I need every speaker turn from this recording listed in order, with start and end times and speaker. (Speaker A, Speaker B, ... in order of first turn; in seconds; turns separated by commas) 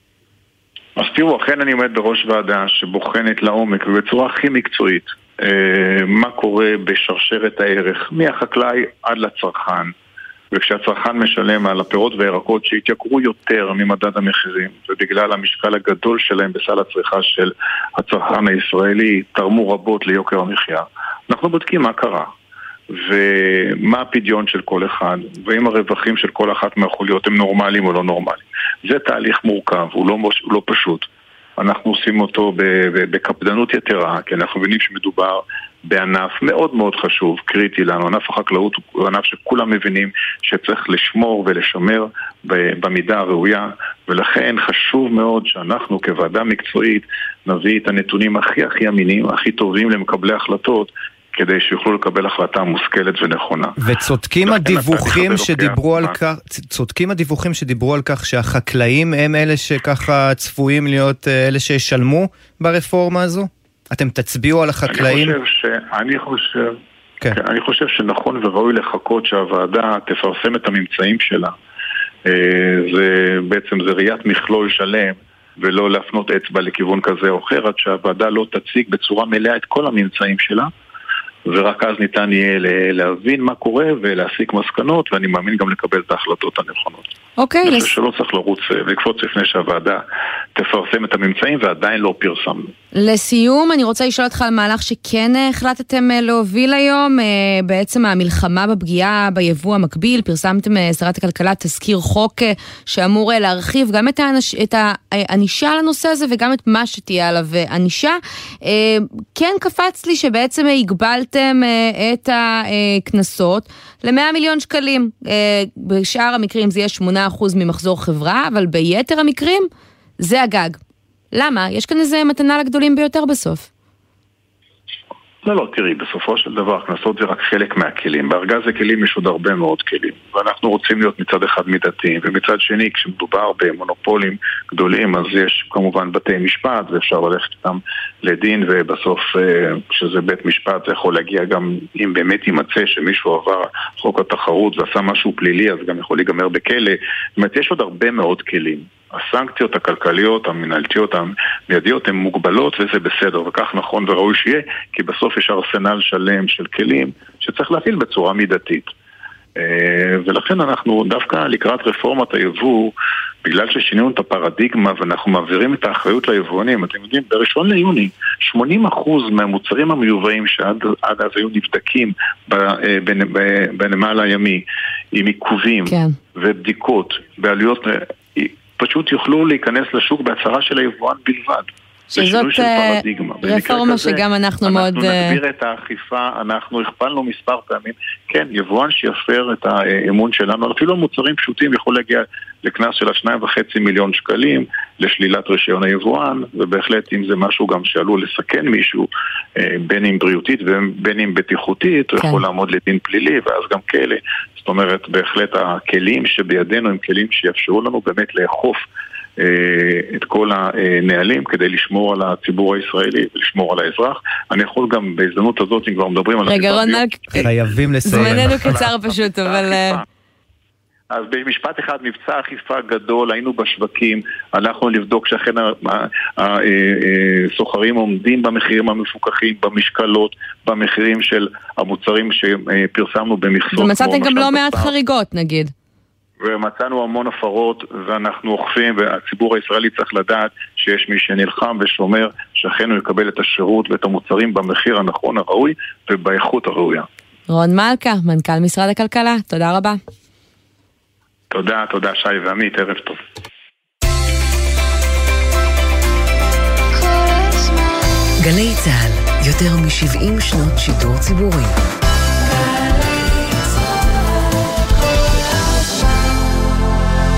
Speaker A: 0.9-9.9, Speaker A: 10.5-22.3, Speaker A: 22.9-31.1, Speaker A: 31.6-53.7, Speaker B: 53.8-65.3, Speaker A: 54.5-56.1, Speaker A: 64.9-66.8, Speaker A: 67.3-71.5, Speaker A: 72.2-80.7, Speaker A: 81.5-87.1, Speaker C: 87.4-87.9, Speaker A: 87.6-90.0, Speaker A: 90.5-92.7, Speaker C: 92.9-119.7, Speaker C: 120.2-120.8, Speaker C: 121.3-123.7, Speaker A: 125.4-158.9, Speaker A: 159.6-162.9, Speaker A: 163.4-208.8, Speaker C: 175.9-176.2, Speaker C: 182.1-185.4, Speaker A: 209.4-217.0, Speaker C: 216.5-217.5, Speaker B: 217.3-218.7, Speaker C: 218.0-220.0, Speaker A: 218.1-220.0, Speaker A: 221.1-234.9, Speaker C: 233.7-235.7, Speaker A: 236.4-247.1, Speaker C: 247.5-250.0, Speaker A: 251.5-253.2, Speaker D: 258.4-261.7